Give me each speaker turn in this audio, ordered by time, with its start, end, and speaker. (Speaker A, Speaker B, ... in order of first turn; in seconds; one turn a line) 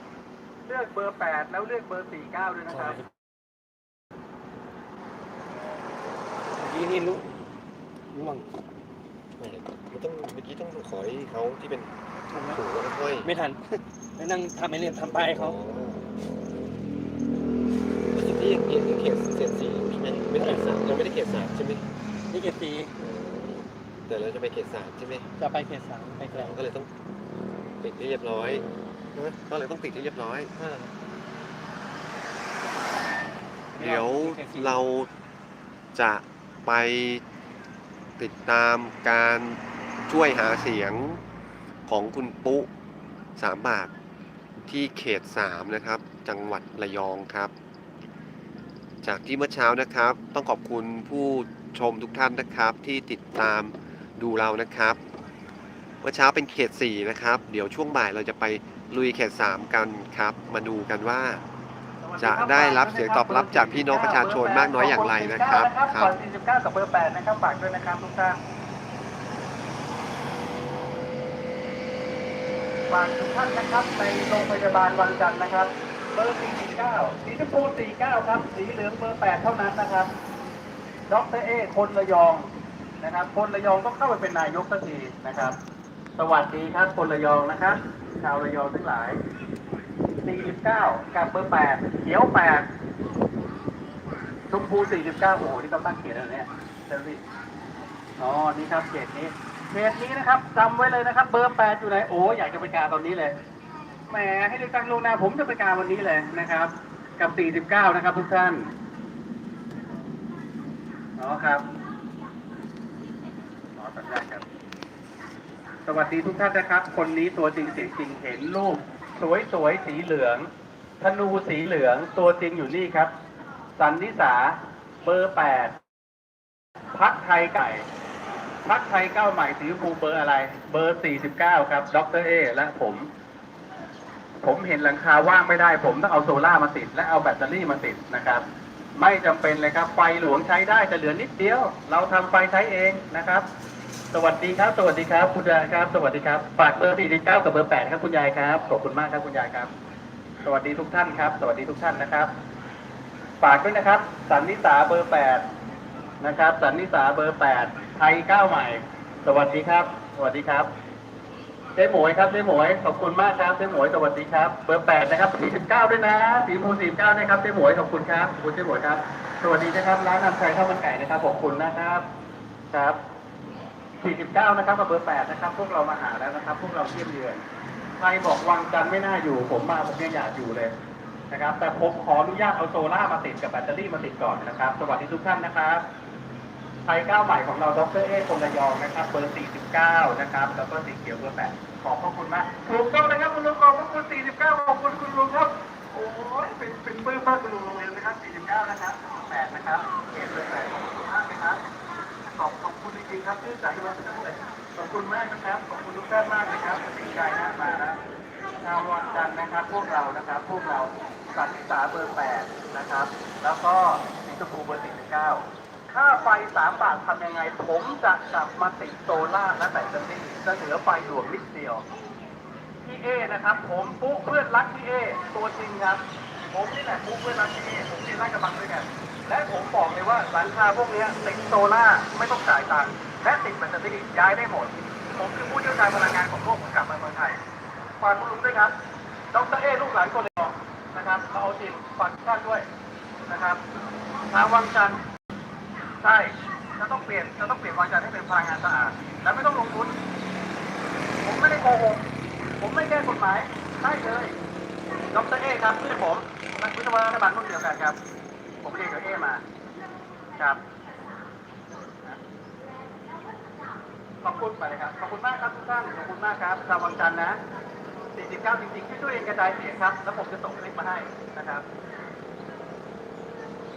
Speaker A: 0.7-3.0
Speaker B: 6.6-7.3
Speaker B: 8.1-8.5
Speaker C: 9.4-13.3
Speaker B: 12.3-12.6
Speaker B: 13.2-15.5
Speaker C: 15.2-16.1
Speaker C: 18.1-21.9
Speaker B: 20.4-20.6
Speaker B: 22.3-22.9
Speaker C: 23.0-25.4
Speaker B: 25.4-26.6
Speaker C: 26.3-26.9
Speaker C: 27.8-30.9
Speaker C: 33.8-35.1
Speaker B: 33.8-34.8
Speaker C: 35.9-37.2
Speaker C: 38.2-41.2
Speaker C: 41.9-42.7
Speaker C: 43.4-43.9
Speaker C: 44.7-47.5
Speaker C: 49.0-55.0
Speaker C: 56.0-61.4
Speaker A: 62.0-68.4
Speaker C: 62.2-66.1
Speaker A: 72.9-80.1
Speaker A: 81.1-85.6
Speaker A: 86.2-89.2
Speaker A: 90.2-92.7
Speaker A: 94.5-97.2
Speaker A: 98.2-103.4
Speaker A: 104.1-108.7
Speaker A: 111.2-111.7
Speaker A: 113.8-114.5
Speaker A: 115.9-120.5
Speaker A: 121.0-123.1
Speaker A: 123.8-125.8
Speaker A: 126.9-127.9
Speaker A: 128.7-133.1
Speaker A: 134.4-138.4
Speaker A: 139.0-143.5
Speaker A: 144.1-149.7
Speaker A: 150.4-152.3
Speaker A: 153.4-155.4
Speaker A: 156.2-160.7
Speaker A: 161.8-172.1
Speaker A: 172.7-173.0
Speaker A: 174.0-177.4
Speaker A: 178.0-180.7
Speaker A: 181.3-185.8
Speaker A: 186.9-201.6
Speaker A: 202.3-208.0
Speaker A: 208.6-221.9
Speaker A: 222.8-237.4
Speaker A: 238.0-238.8
Speaker A: 239.3-242.7
Speaker A: 243.3-243.6
Speaker A: 244.3-245.0
Speaker A: 246.0-249.9
Speaker A: 251.2-252.1
Speaker A: 252.6-254.4
Speaker A: 255.1-258.0
Speaker A: 258.6-259.4
Speaker A: 260.4-260.6
Speaker A: 264.2-267.4
Speaker A: 268.1-271.6